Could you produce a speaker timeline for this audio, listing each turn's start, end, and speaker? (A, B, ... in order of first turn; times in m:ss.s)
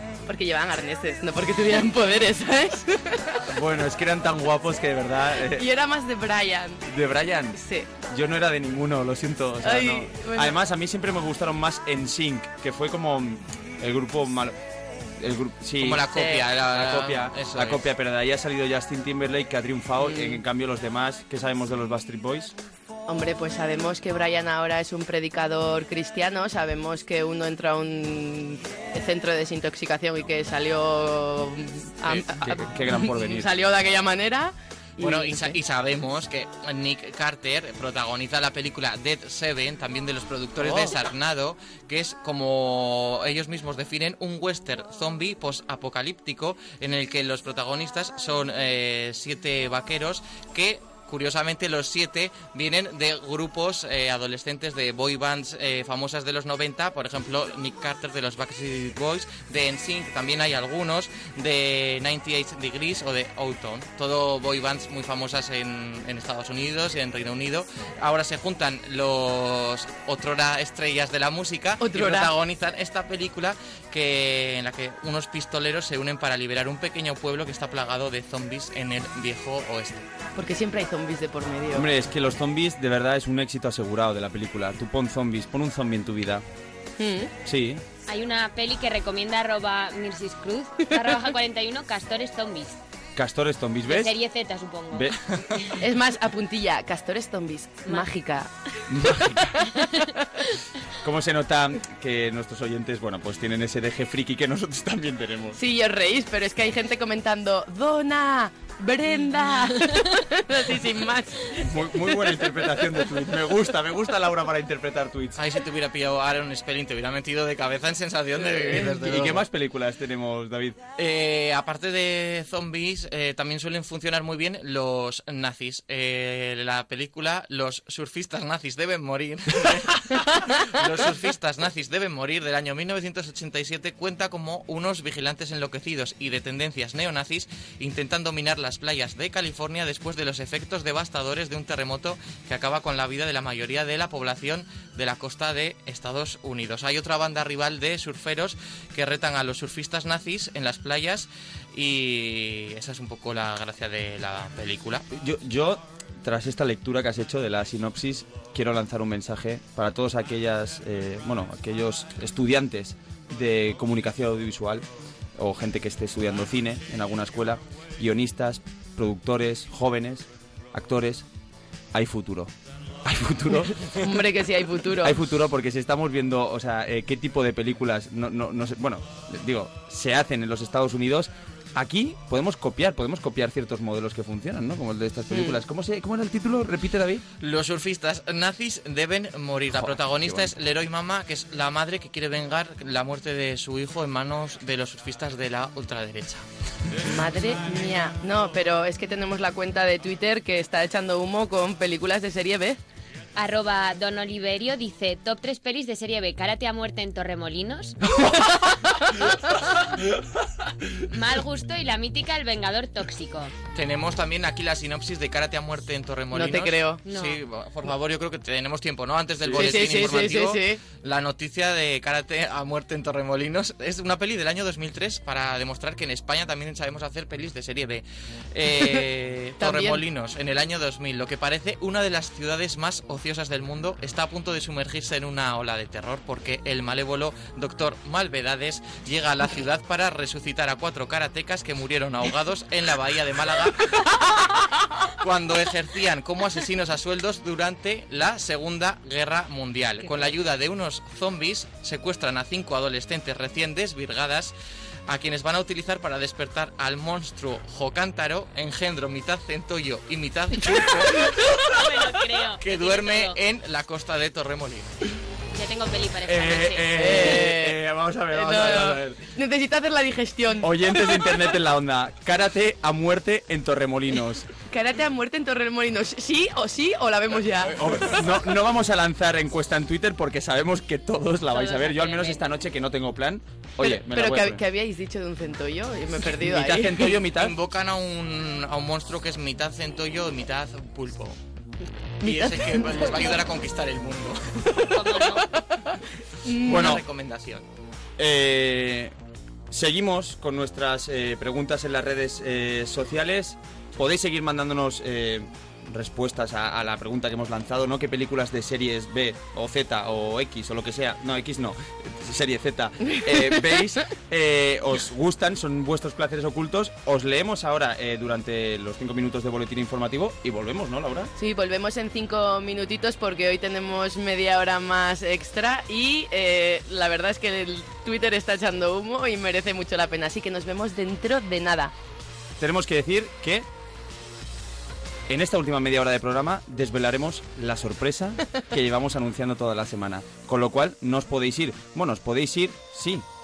0:00.2-0:03.4 A
0:03.5-0:05.7 B
0:05.4-0:06.9 A
0:06.9-0:14.6 B
0:07.5-0:07.9 A
0:09.6-0:10.6 A
0:15.2-0:22.5 B
0:15.8-0:17.8 C
0:16.1-0:16.4 A
0:20.0-0:20.4 A
0:23.1-0:35.6 A
0:32.1-0:33.5 B
0:35.0-1:20.1 C
0:40.6-0:40.9 A
1:11.8-1:12.3 A
1:20.4-1:21.9 A
1:21.7-1:26.4 B
1:27.0-1:27.3 A
1:27.4-1:27.8 B
1:28.1-1:32.8 D
1:33.2-1:34.1 B
1:33.9-1:35.1 D
1:34.9-1:35.2 B
1:35.8-1:38.5 A
1:38.9-1:39.5 B
1:41.0-1:45.6 B
1:45.5-1:51.6 A
1:51.6-1:55.4 B
1:55.4-1:59.4 C
1:58.6-1:58.8 A
1:58.7-2:00.8 B
2:01.0-2:35.0 C
2:35.1-2:51.2 B
2:51.9-2:52.5 B
2:53.0-2:53.9 B
2:53.9-2:55.2 A
2:55.0-3:07.2 B
3:05.3-3:05.6 A
3:07.4-3:16.4 C
3:09.7-3:10.5 B
3:17.0-3:22.8 A
3:23.4-3:28.0 D
3:28.3-3:29.2 A
3:31.1-3:33.5 D
3:33.7-4:04.6 C
3:36.3-3:37.0 A
3:37.0-3:37.4 D
3:39.4-3:40.3 B
3:39.5-3:40.8 A
3:48.8-3:49.0 A
3:49.6-3:50.0 A
4:05.2-4:14.5 C
4:15.1-4:21.4 C
4:21.7-4:23.4 D
4:22.6-4:24.9 C
4:25.5-4:27.3 D
4:26.2-4:29.2 B
4:26.9-4:27.8 A
4:28.3-4:31.3 A
4:30.6-4:34.5 B
4:34.7-4:38.2 A
4:37.7-4:44.6 B
4:41.5-4:42.4 D
4:43.8-4:47.1 A
4:46.2-4:47.5 B
4:47.0-4:51.4 C
4:52.2-4:53.2 A
4:52.2-4:55.4 C
4:54.9-4:55.4 D
4:56.4-4:57.0 A
4:56.6-4:57.6 C
4:56.6-4:57.0 B
4:58.2-4:59.1 B
4:59.7-5:21.3 B
5:21.4-5:31.9 A
5:32.6-5:33.6 B
5:35.3-5:43.2 B